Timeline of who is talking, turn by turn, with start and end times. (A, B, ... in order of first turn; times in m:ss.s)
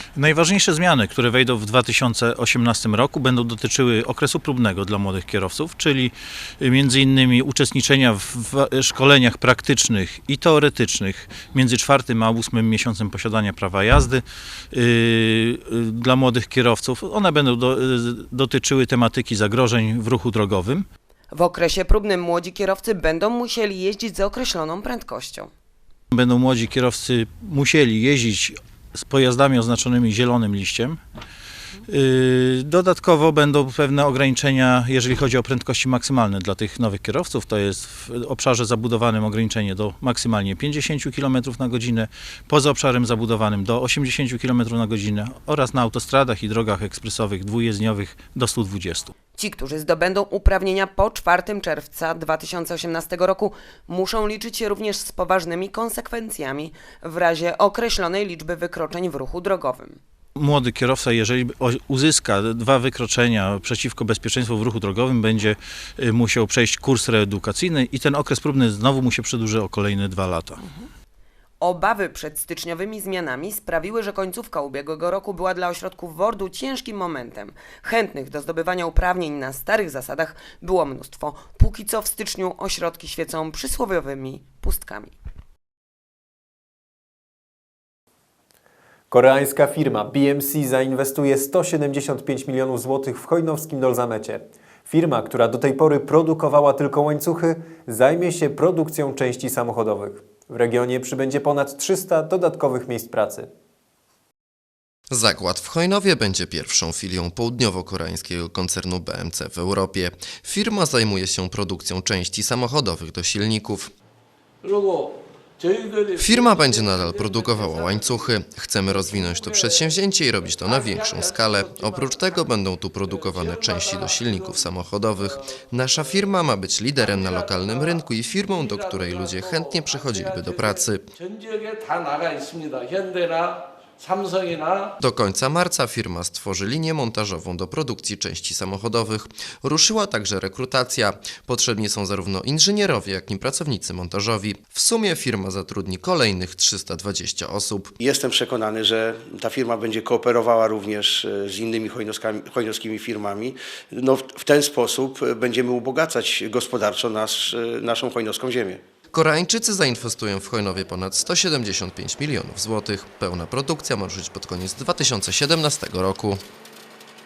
0:00.2-0:20.9 A
0:21.3-0:25.5 B
0:26.1-0:31.0 A
0:31.9-0:49.1 A
0:49.4-1:00.0 B
1:00.4-1:10.6 A
1:11.6-1:25.2 B
1:29.1-1:43.5 C
1:45.1-1:53.9 D
1:54.6-1:58.3 E
1:56.2-2:11.1 D
1:58.9-1:59.9 E
2:00.6-2:02.2 E
2:03.1-2:04.6 E
2:07.0-2:14.9 E
2:15.0-2:27.9 D
2:28.0-2:38.8 F
2:39.1-2:46.4 D